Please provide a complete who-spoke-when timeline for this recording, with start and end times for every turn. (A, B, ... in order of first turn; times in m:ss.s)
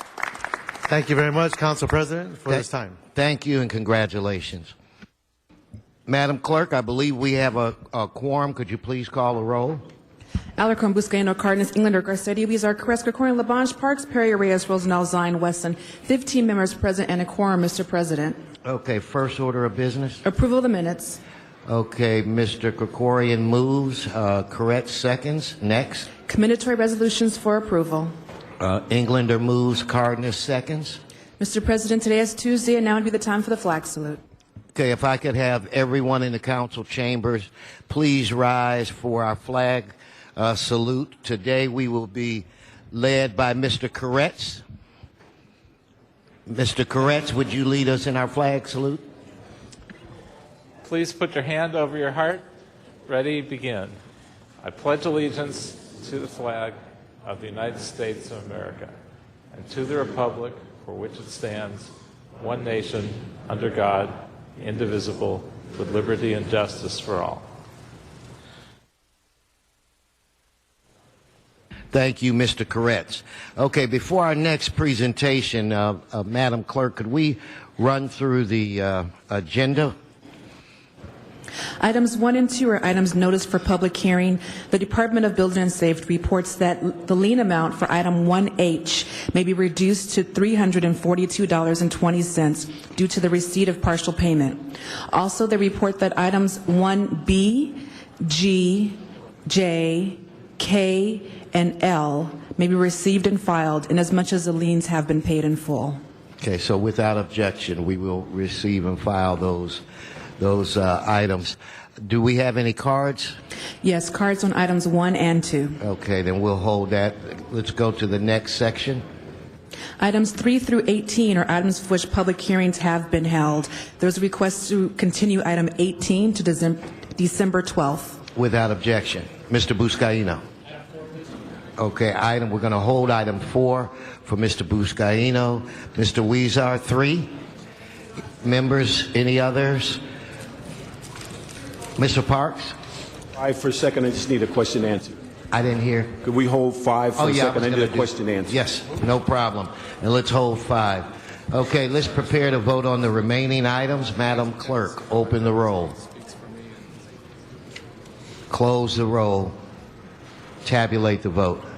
0:00.9-0:03.0 A
0:02.5-0:04.7 B
0:06.1-0:09.8 B
0:10.6-0:18.4 C
0:18.6-0:20.2 B
0:20.2-0:21.2 C
0:21.7-0:26.1 B
0:26.3-0:28.1 C
0:28.6-0:31.0 B
0:31.4-0:34.2 C
0:34.7-0:44.6 B
0:46.5-0:49.0 B
0:50.8-0:52.4 D
0:53.1-0:54.0 D
0:54.6-0:58.9 D
0:59.5-1:07.4 D
1:11.9-1:19.9 B
1:21.8-1:46.0 C
1:46.4-1:49.8 B
1:50.4-1:53.4 B
1:53.8-1:55.8 C
1:55.8-1:59.0 B
2:00.0-2:08.2 C
2:08.3-2:10.4 B
2:11.8-2:17.3 B
2:18.4-2:20.0 B
2:22.0-2:22.7 B
2:23.3-2:25.2 E
2:25.5-2:26.2 B
2:26.2-2:28.6 E
2:27.2-2:36.0 B
2:38.5-2:39.6 B
2:40.6-2:41.6 B